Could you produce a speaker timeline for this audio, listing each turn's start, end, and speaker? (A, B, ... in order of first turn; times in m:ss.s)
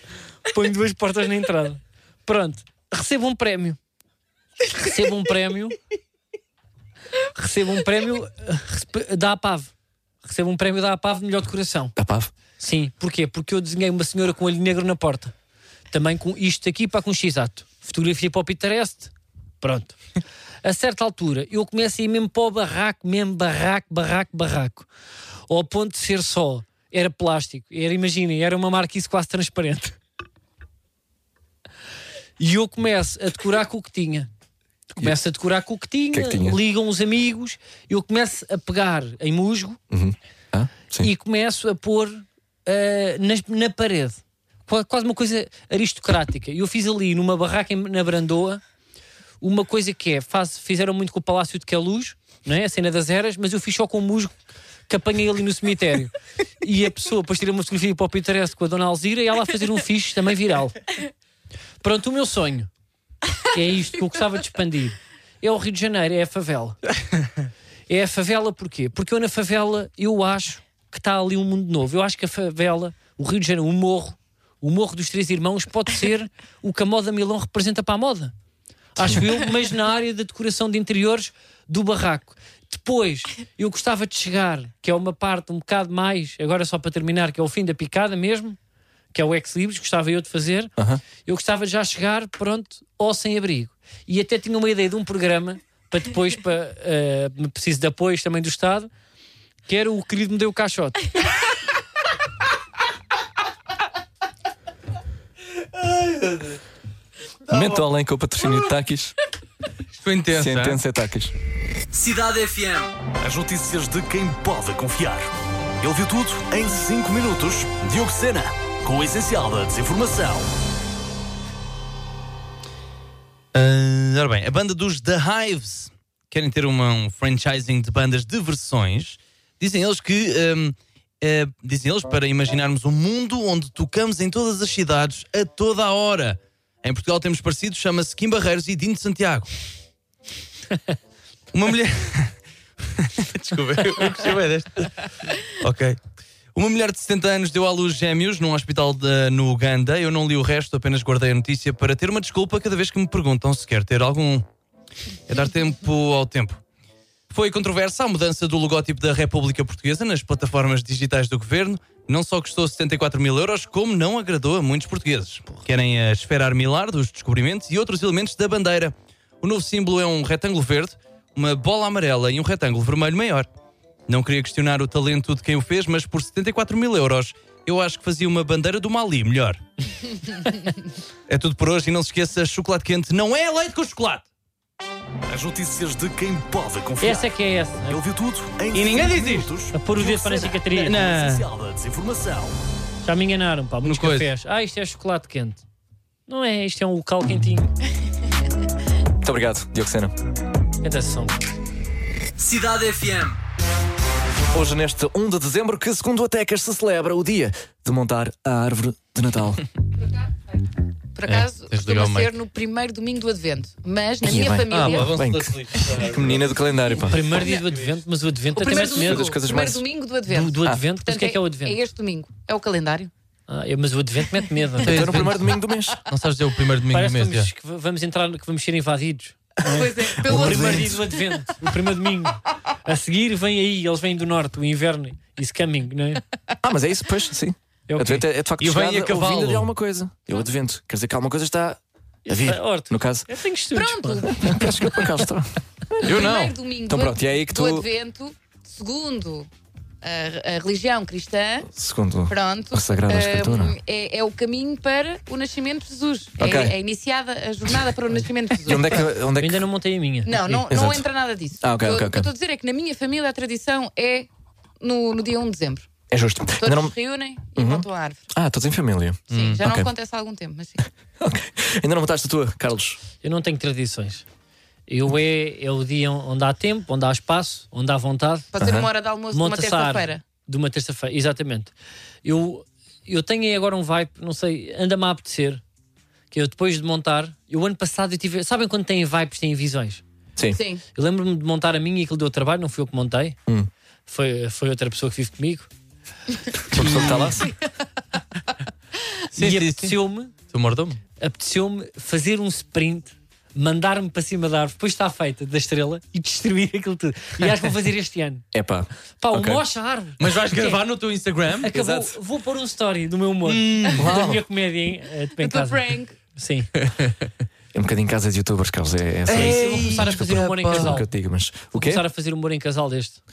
0:00.5-0:03.8 A
0:04.7-0:05.8 A
0:07.2-0:09.7 A
0:10.2-0:11.9 A
0:12.0-0:12.3 B
0:12.6-0:15.3 A
0:15.9-0:20.0 A
0:20.6-0:24.9 A
0:25.5-0:30.0 A
0:32.4-0:34.3 A
0:35.0-0:39.8 A
0:36.1-0:36.6 B
0:39.9-0:41.1 B
0:41.0-0:48.6 A
0:49.4-0:54.4 A
0:54.9-1:00.8 A
1:01.8-1:02.7 A
1:03.4-1:06.8 A
1:07.9-1:18.3 A
1:19.0-1:28.6 A
1:29.1-1:38.9 A
1:30.8-1:31.0 B
1:39.7-1:41.1 A
1:45.7-1:46.6 C
1:47.5-1:49.1 B
1:47.5-1:47.8 C
1:49.9-1:50.8 C
1:50.3-1:51.3 B
1:52.0-1:55.3 D
1:52.0-1:52.8 C
1:53.4-1:54.1 B
1:55.8-2:00.5 D
2:03.5-2:19.5 C
2:21.5-2:22.3 C
2:22.9-2:26.0 C
2:26.6-2:34.5 C
2:35.3-2:36.6 C
2:37.3-2:53.5 C
2:54.1-3:04.3 C
3:05.3-3:07.2 B
3:05.4-3:07.2 D
3:07.0-3:08.0 A
3:07.9-3:12.5 B
3:08.7-3:09.5 C
3:08.7-3:10.0 D
3:09.7-3:11.0 A
3:10.7-3:11.5 C
3:11.3-3:12.4 D
3:13.0-3:15.6 A
3:13.8-3:14.3 C
3:16.3-3:17.7 A
3:19.2-3:20.1 B
3:20.8-3:21.4 A
3:22.4-3:23.4 D
3:24.5-3:29.6 B
3:31.2-3:35.1 E
3:31.2-3:32.4 C
3:34.2-3:37.4 B
3:34.7-3:36.6 C
3:37.0-3:39.4 A
3:37.4-3:37.9 C
3:38.5-3:43.1 E
3:38.6-3:39.8 B
3:40.3-3:41.8 A
3:43.5-3:45.2 A
3:44.8-3:45.5 C
3:44.8-3:46.0 B
3:46.1-3:47.5 C
3:46.9-3:56.2 A
3:49.7-3:51.2 E
3:50.2-3:51.0 B
3:56.6-4:03.3 B
3:57.9-3:58.3 A
3:58.6-3:59.7 C
4:02.3-4:04.3 A
4:03.8-4:05.0 E
4:04.4-4:06.3 B
4:06.0-4:09.5 E
4:06.0-4:06.6 C
4:06.9-4:07.9 B
4:10.0-4:11.7 E
4:11.7-4:13.8 B
4:12.3-4:19.1 E
4:16.4-4:16.8 B
4:18.6-4:19.6 B
4:19.4-4:20.5 A
4:20.2-4:24.3 E
4:20.6-4:21.1 B
4:21.6-4:22.3 B
4:24.8-4:25.9 E
4:26.1-4:27.0 B
4:26.6-4:28.3 E
4:27.6-4:29.9 B
4:29.3-4:29.6 C
4:29.3-4:30.8 E
4:31.2-4:33.0 B
4:33.2-4:34.3 A
4:34.9-4:38.5 A
4:38.5-4:40.2 E
4:38.6-4:38.9 B
4:39.3-4:41.7 A
4:42.2-4:45.6 A
4:46.3-4:50.0 A
4:50.5-4:50.8 E
4:51.0-4:53.4 A
4:54.1-4:55.7 A
4:56.7-4:57.4 A
4:56.7-4:57.5 B
4:59.3-5:00.0 C
4:59.4-5:00.3 A
5:00.5-5:01.0 C
5:01.2-5:08.4 A
5:08.5-5:09.6 B
5:09.2-5:10.8 A
5:10.2-5:11.7 C
5:11.6-5:16.7 A
5:11.7-5:12.2 B
5:13.4-5:14.1 C
5:14.0-5:14.4 B
5:15.4-5:16.2 E
5:16.8-5:17.1 C
5:17.7-5:22.0 B
5:19.3-5:21.0 C
5:19.3-5:21.1 A
5:21.8-5:23.2 A